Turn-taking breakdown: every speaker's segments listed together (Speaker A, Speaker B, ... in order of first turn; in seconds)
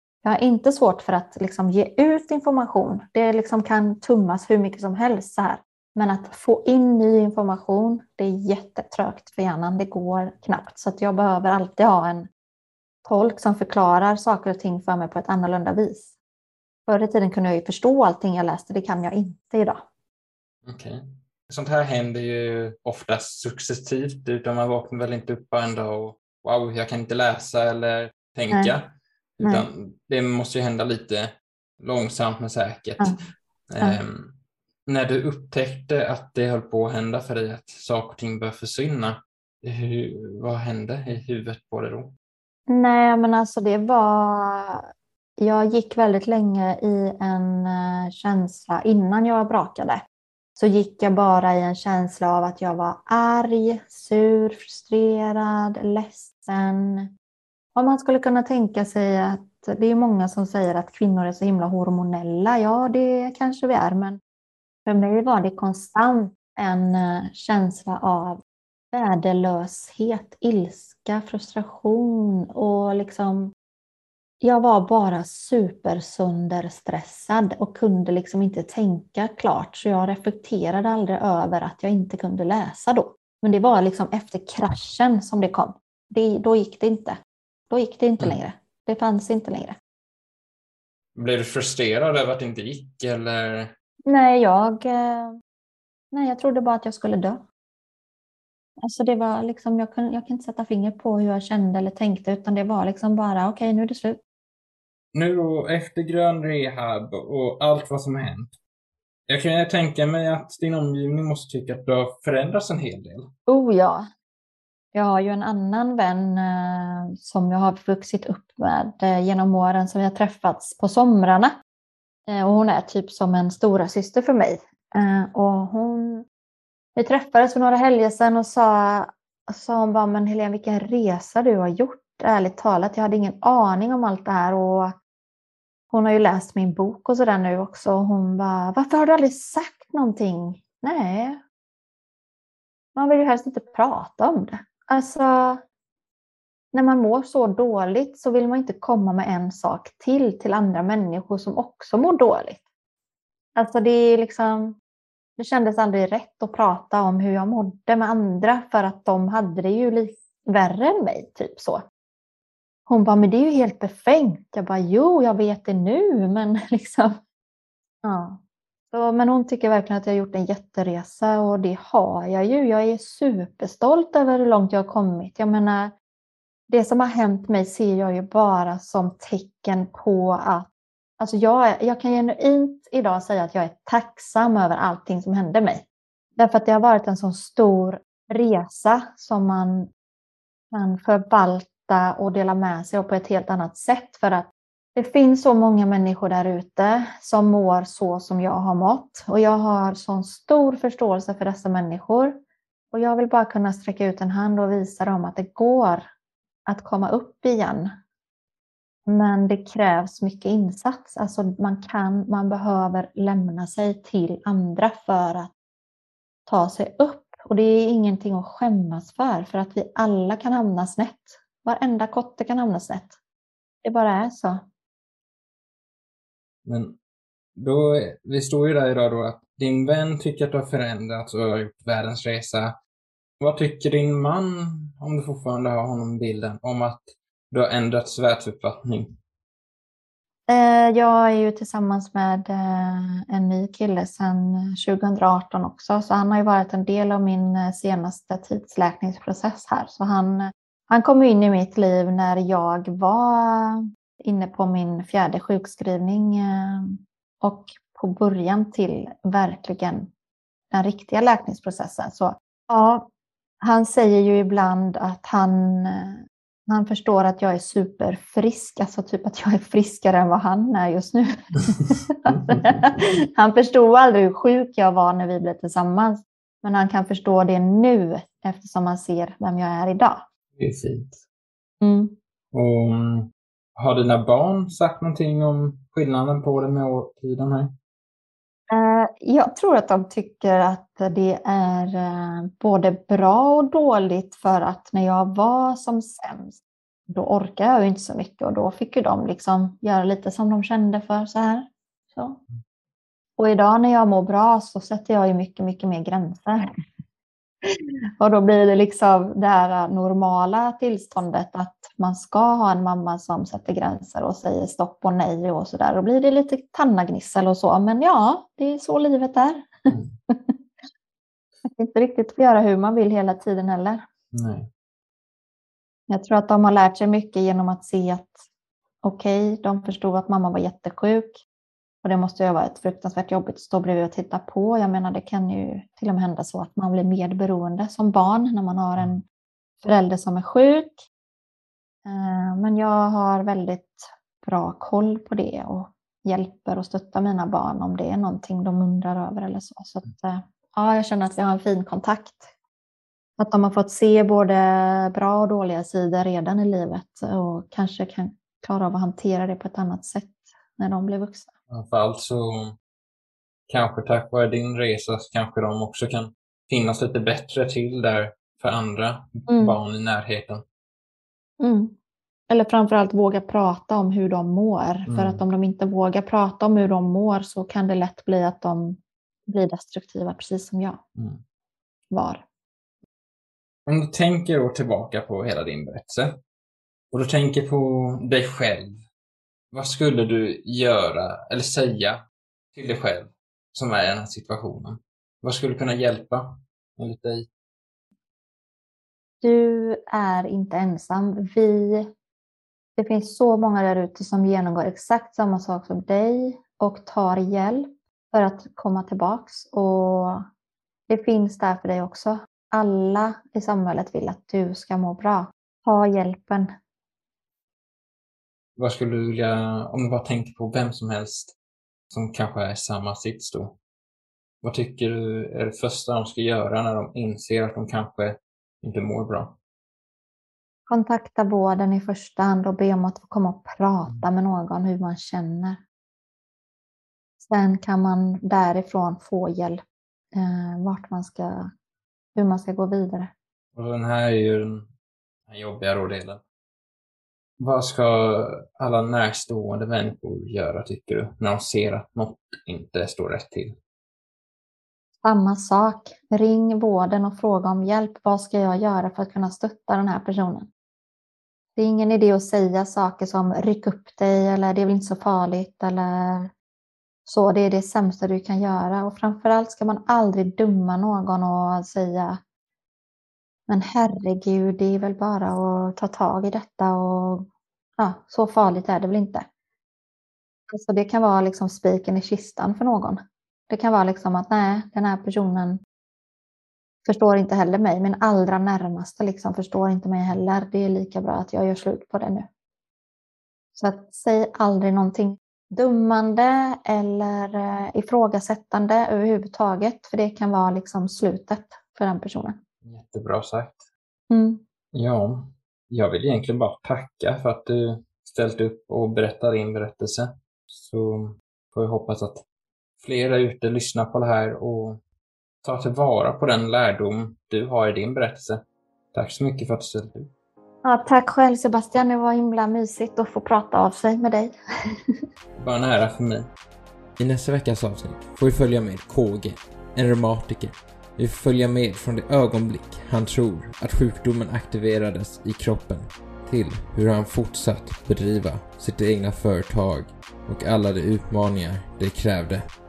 Speaker A: 0.2-12.3, 13.0-16.1, 16.9-19.8, 29.4-29.6, 42.7-44.9, 45.4-50.0, 50.6-57.1, 57.7-64.2, 64.8-68.4, 68.9-73.5, 74.4-87.2, 87.7-89.8, 94.1-95.3, 96.1-97.4, 98.8-104.2, 113.5-114.1, 114.9-121.5, 122.3-126.2, 127.0-134.9, 135.9-141.4, 142.9-145.6, 146.7-152.6, 153.6-154.8, 155.4-161.8, 162.9-167.2, 168.0-168.4, 168.9-175.9, 176.7-180.7, 181.2-185.8, 186.4-189.9, 190.7-202.4, 202.9-206.1, 206.7-207.9, 209.1-215.5, 216.5-223.1, 223.8-224.6, 240.5-260.1, 260.7-263.1, 263.6-280.2, 281.8-282.1, 288.7-296.6, 297.1-302.4, 303.4-306.6, 307.6-320.6, 321.6-324.0, 326.1-328.4, 329.0-331.4, 332.0-339.2, 339.8-341.0, 342.0-352.5, 353.4-361.5, 369.5-369.8, 371.6-371.9, 372.5-381.0, 382.1-382.4, 399.4-402.1, 403.0-410.4, 411.1-416.7, 430.9-435.8, 437.4-439.8, 440.3-441.7, 442.3-443.3, 455.2-460.7, 461.8-466.5, 467.2-472.4, 473.7-477.4, 478.0-479.5, 480.7-485.8, 487.1-492.5, 493.8-502.6, 504.3-504.6, 520.8-524.5
Speaker B: 20.6-33.1, 33.7-34.3, 34.9-42.1, 91.1-93.7, 105.1-108.5, 109.3-113.3, 226.6-226.9, 227.6-232.8, 233.4-239.2, 272.3-272.8, 280.6-281.2, 282.5-287.7, 324.3-324.7, 361.7-362.7, 363.7-370.6, 375.1-375.4, 381.1-381.4, 383.9-386.4, 387.1-389.0, 389.7-392.2, 392.7-397.5, 418.8-421.5, 422.1-423.8, 424.6-429.6, 443.7-444.9, 445.5-446.4, 447.6-453.8, 502.8-503.9, 504.9-512.4, 513.0-515.0, 515.6-518.6, 519.1-520.3, 525.5-526.5
Speaker C: 527.2-542.6